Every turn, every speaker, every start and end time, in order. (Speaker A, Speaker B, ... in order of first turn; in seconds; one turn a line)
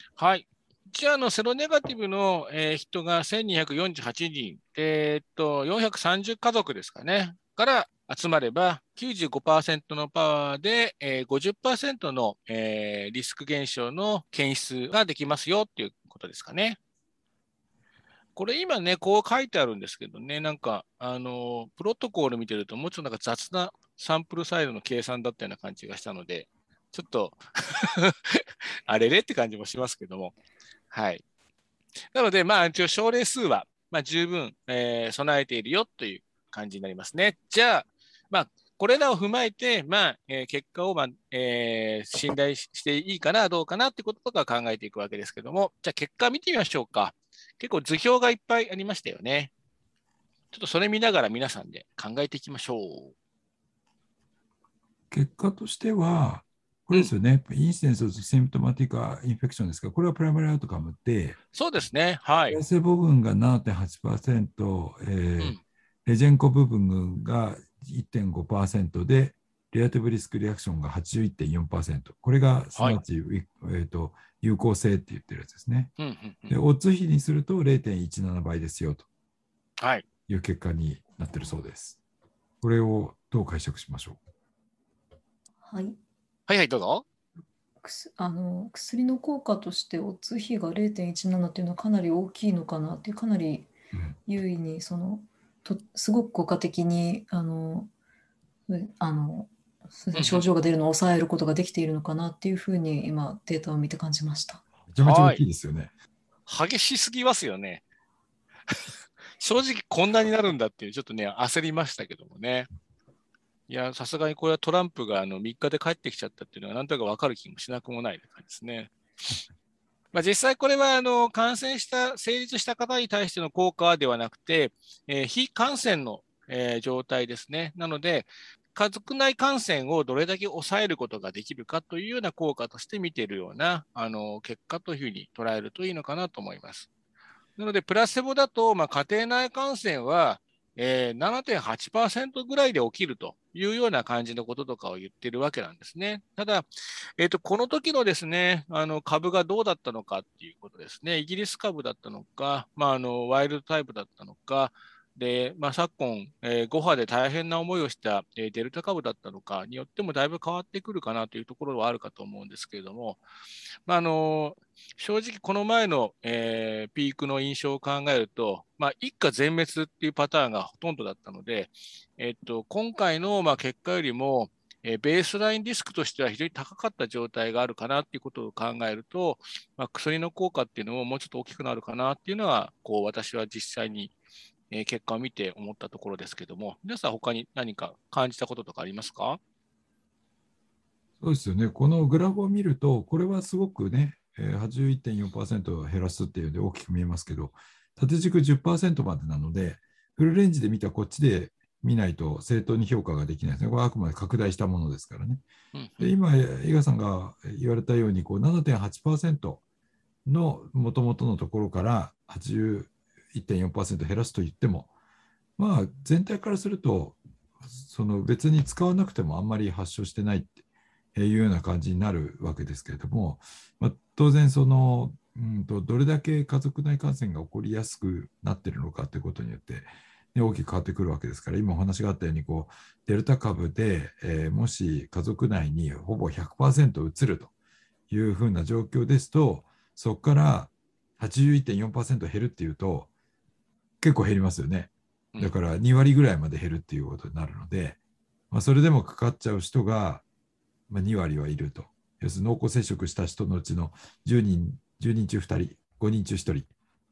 Speaker A: 0.2-16.8
Speaker A: 18.4-30.3
Speaker A: 30.9-31.2
Speaker A: 32.1-49.5
Speaker A: 50.5-53.1
Speaker B: 55.1-61.4
Speaker A: 61.5-62.6
Speaker B: 62.5-75.9
Speaker A: 76.0-76.6
Speaker B: 76.5-79.1
Speaker A: 79.8-80.0
Speaker B: 80.3-82.0
Speaker B: 82.6-84.2
Speaker C: 85.6-86.0
Speaker A: 86.5-87.0
Speaker C: 87.8-93.7
Speaker C: 94.2-97.9
Speaker C: 98.7-104.6
Speaker A: 100.1-100.5
Speaker B: 104.8-105.9
Speaker A: 105.0-105.4
Speaker A: 106.5-107.8
Speaker A: 109.4-112.7
Speaker A: 113.7-118.9
Speaker A: 120.1-136.9
Speaker A: 137.6-146.7
Speaker A: 147.2-163.2
Speaker A: 163.9-184.1
Speaker A: 184.7-189.4
Speaker B: 191.2-205.4
Speaker A: 205.7-206.1
Speaker B: 206.0-209.6
Speaker B: 210.2-214.9
Speaker B: 215.6-220.6
Speaker B: 221.1-237.5
Speaker B: 238.1-243.1
Speaker B: 244.0-248.0
Speaker B: 248.5-250.2
Speaker B: 250.9-256.7